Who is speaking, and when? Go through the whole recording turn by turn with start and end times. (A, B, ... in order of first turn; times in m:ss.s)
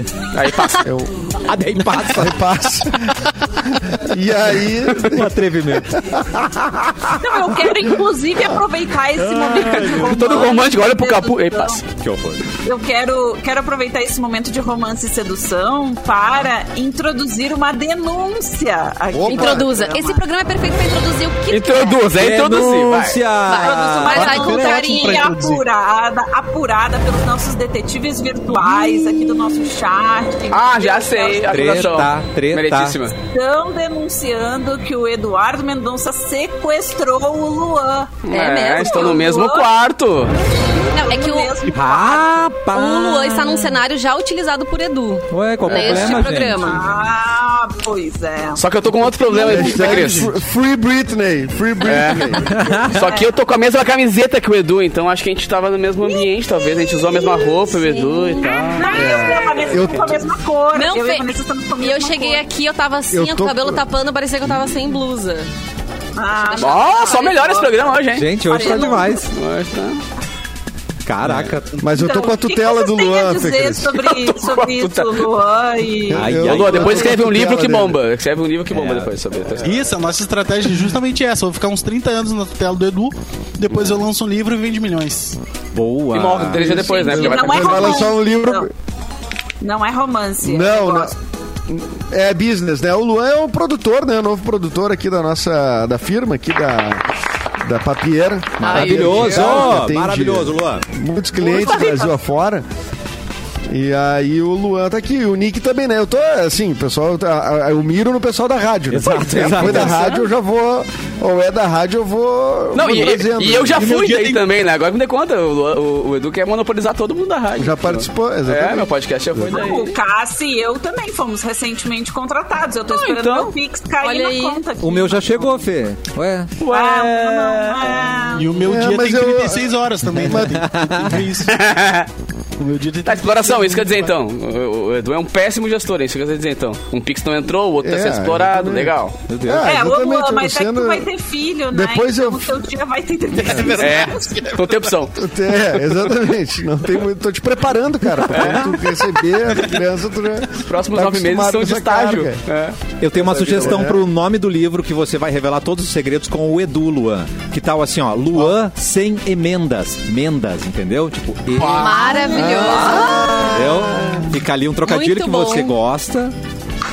0:00.3-0:00.9 A
0:00.8-0:01.3 B
0:01.4-0:02.4 C
0:02.0-0:06.7 B
0:05.0-0:06.0 C
0:06.8-0:07.2 C
0:07.2-0:11.8 D
0:09.2-0:10.5 C
0:09.7-0:11.8 A
0:11.9-0:12.4 C
0:12.6-0:20.2 D
0:19.1-0:19.8 B
0:19.3-0:22.1 E
0:21.5-0:23.2 A
0:22.2-0:24.9 C
0:23.4-0:25.1 E
0:23.6-0:32.0 D
0:24.1-0:25.6 F
0:30.5-0:33.2 A
0:31.5-0:33.0 C
0:33.3-0:38.2 D
0:38.2-0:40.4 A
0:38.3-0:39.4 E
0:38.8-0:39.7 D
0:40.8-0:42.5 D
0:40.9-0:41.5 E
0:41.7-0:43.8 C
0:42.7-0:46.8 E
0:45.3-0:46.8 C
0:46.6-0:48.6 D
0:48.6-0:50.3 A
0:49.3-0:49.7 D
0:49.4-0:52.5 B
0:49.9-0:50.2 F
0:51.8-1:00.0 A
0:52.5-0:53.0 C
0:52.9-0:53.3 D
0:57.7-0:59.0 E
0:58.5-1:02.4 D
0:58.9-1:00.2 B
1:00.7-1:05.5 E
1:03.1-1:03.8 B
1:06.2-1:09.3 D
1:06.6-1:10.0 A
1:08.1-1:09.3 C
1:11.0-1:11.8 C
1:11.8-1:14.0 B
1:11.9-1:16.3 D
1:14.0-1:15.3 A
1:16.1-1:18.0 B
1:16.1-1:17.1 C
1:16.4-1:19.8 A
1:18.7-1:19.1 C
1:19.6-1:25.4 F
1:25.7-1:27.1 C
1:26.1-1:28.1 A
1:26.6-1:28.7 D
1:26.7-1:28.7 B
1:29.6-1:31.2 D
1:30.4-1:31.2 B
1:31.7-1:42.6 B
1:38.6-1:40.8 C
1:38.6-1:39.3 E
1:39.2-1:39.6 A
1:41.4-1:42.2 D
1:41.5-1:42.0 A
1:43.7-1:53.9 B
1:48.9-1:50.2 C
1:49.0-1:50.2 A
1:52.7-2:00.0 A
1:53.7-1:54.4 F
1:57.6-1:59.5 B
1:59.5-2:05.6 D
2:02.9-2:03.5 A
2:04.0-2:04.6 E
2:04.8-2:06.6 C
2:06.6-2:08.4 A
2:06.7-2:08.5 D
2:08.4-2:11.6 F
2:08.6-2:10.6 B
2:10.2-2:11.2 C
2:11.5-2:12.1 A
2:12.6-2:14.1 F
2:13.0-2:19.2 A
2:17.8-2:21.1 B
2:19.3-2:19.7 C
2:19.6-2:24.4 D
2:21.7-2:22.6 B
2:23.3-2:24.8 F
2:23.8-2:25.2 A
2:25.2-2:32.4 B
2:28.3-2:28.8 A
2:30.6-2:33.9 A
2:33.0-2:46.3 C
2:33.5-2:34.1 B
2:41.6-2:42.1 F
2:41.7-2:43.5 E
2:42.3-2:44.3 B
2:44.8-2:45.8 E